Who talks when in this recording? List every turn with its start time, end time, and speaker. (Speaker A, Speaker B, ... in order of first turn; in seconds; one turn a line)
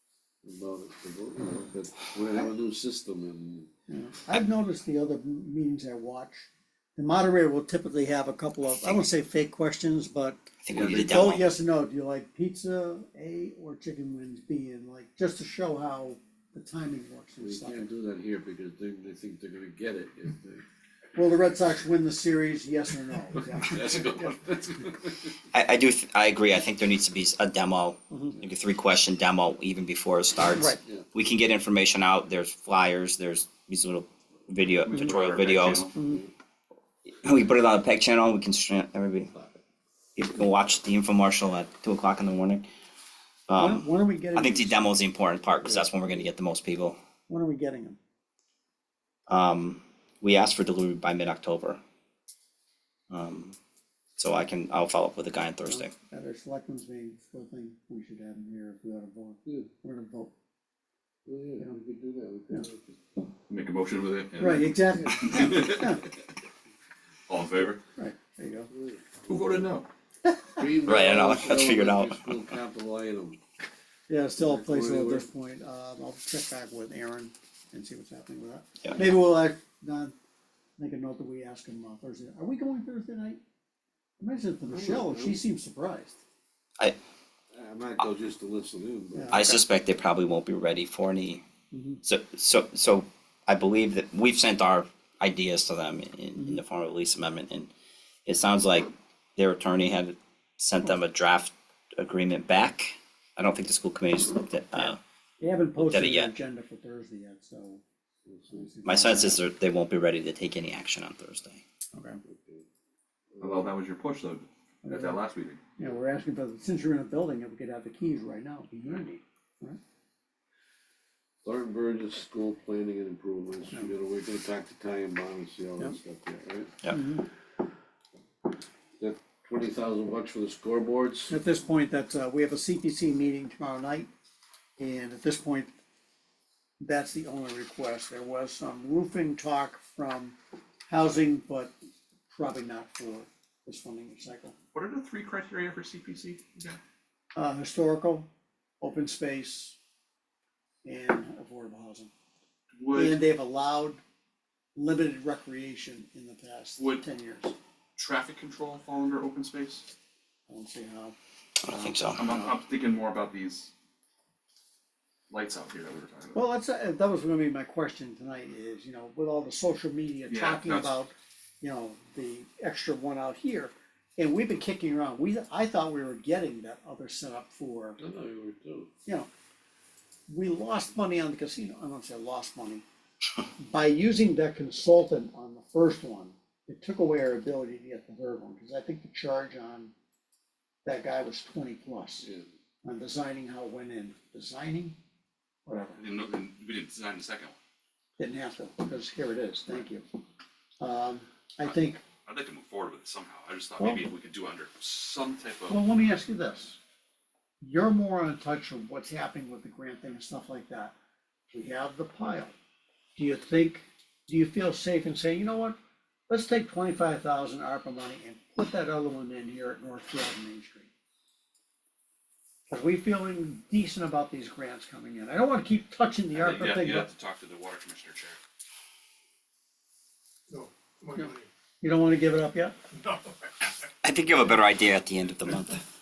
Speaker A: 0.4-3.7
Speaker B: 3.9-17.9
Speaker C: 8.8-9.1
Speaker C: 10.6-11.5
Speaker A: 10.7-11.1
Speaker A: 17.4-20.6
Speaker B: 21.1-24.0
Speaker A: 23.4-25.4
Speaker C: 25.5-35.9
Speaker B: 28.1-28.4
Speaker B: 30.5-30.8
Speaker D: 34.9-36.0
Speaker B: 35.9-36.2
Speaker C: 37.2-39.3
Speaker C: 40.2-42.6
Speaker C: 43.5-47.0
Speaker B: 43.6-44.8
Speaker B: 47.3-48.0
Speaker C: 49.3-51.8
Speaker C: 53.1-53.6
Speaker C: 54.2-55.9
Speaker B: 55.7-60.3
Speaker A: 61.3-63.0
Speaker D: 63.5-66.0
Speaker B: 64.4-66.0
Speaker D: 67.3-67.8
Speaker B: 68.0-68.7
Speaker A: 68.7-69.3
Speaker D: 69.3-69.9
Speaker A: 70.5-73.4
Speaker C: 70.8-72.3
Speaker B: 74.1-80.1
Speaker A: 74.4-75.3
Speaker B: 80.8-83.4
Speaker B: 84.2-86.2
Speaker A: 84.7-85.4
Speaker A: 87.5-89.3
Speaker B: 89.2-89.6
Speaker C: 89.3-91.4
Speaker B: 91.7-92.0
Speaker C: 92.0-97.7
Speaker C: 98.3-105.0
Speaker B: 104.8-107.8
Speaker C: 105.8-106.3
Speaker A: 108.3-108.7
Speaker B: 108.5-109.4
Speaker C: 108.8-111.6
Speaker B: 111.9-112.2
Speaker A: 112.2-112.7
Speaker D: 113.4-115.6
Speaker B: 114.8-115.2
Speaker B: 115.8-119.8
Speaker A: 121.4-126.7
Speaker B: 126.9-127.3
Speaker A: 129.0-131.3
Speaker B: 131.3-134.1
Speaker B: 134.8-135.7
Speaker B: 136.8-140.3
Speaker B: 140.9-141.7
Speaker B: 142.3-144.6
Speaker D: 144.7-146.8
Speaker B: 147.3-148.3
Speaker B: 148.8-149.8
Speaker B: 150.8-152.1
Speaker D: 152.8-153.2
Speaker B: 152.9-154.0
Speaker B: 154.8-157.5
Speaker D: 158.0-159.9
Speaker B: 160.5-161.2
Speaker C: 161.7-162.3
Speaker D: 162.1-163.7
Speaker D: 165.3-166.4
Speaker B: 166.3-178.0
Speaker D: 170.3-170.9
Speaker A: 178.0-178.9
Speaker B: 180.3-182.8
Speaker B: 183.6-189.9
Speaker B: 190.8-192.3
Speaker B: 192.8-195.0
Speaker B: 195.7-196.0
Speaker D: 196.0-197.6
Speaker B: 198.2-200.1
Speaker B: 200.8-202.0
Speaker D: 202.2-205.8
Speaker B: 203.8-204.1
Speaker B: 205.7-206.8
Speaker B: 207.6-210.9
Speaker B: 211.5-212.5
Speaker B: 213.2-215.8
Speaker B: 216.3-220.9
Speaker B: 222.7-227.1
Speaker D: 226.3-228.4
Speaker B: 231.1-232.8
Speaker C: 234.0-235.8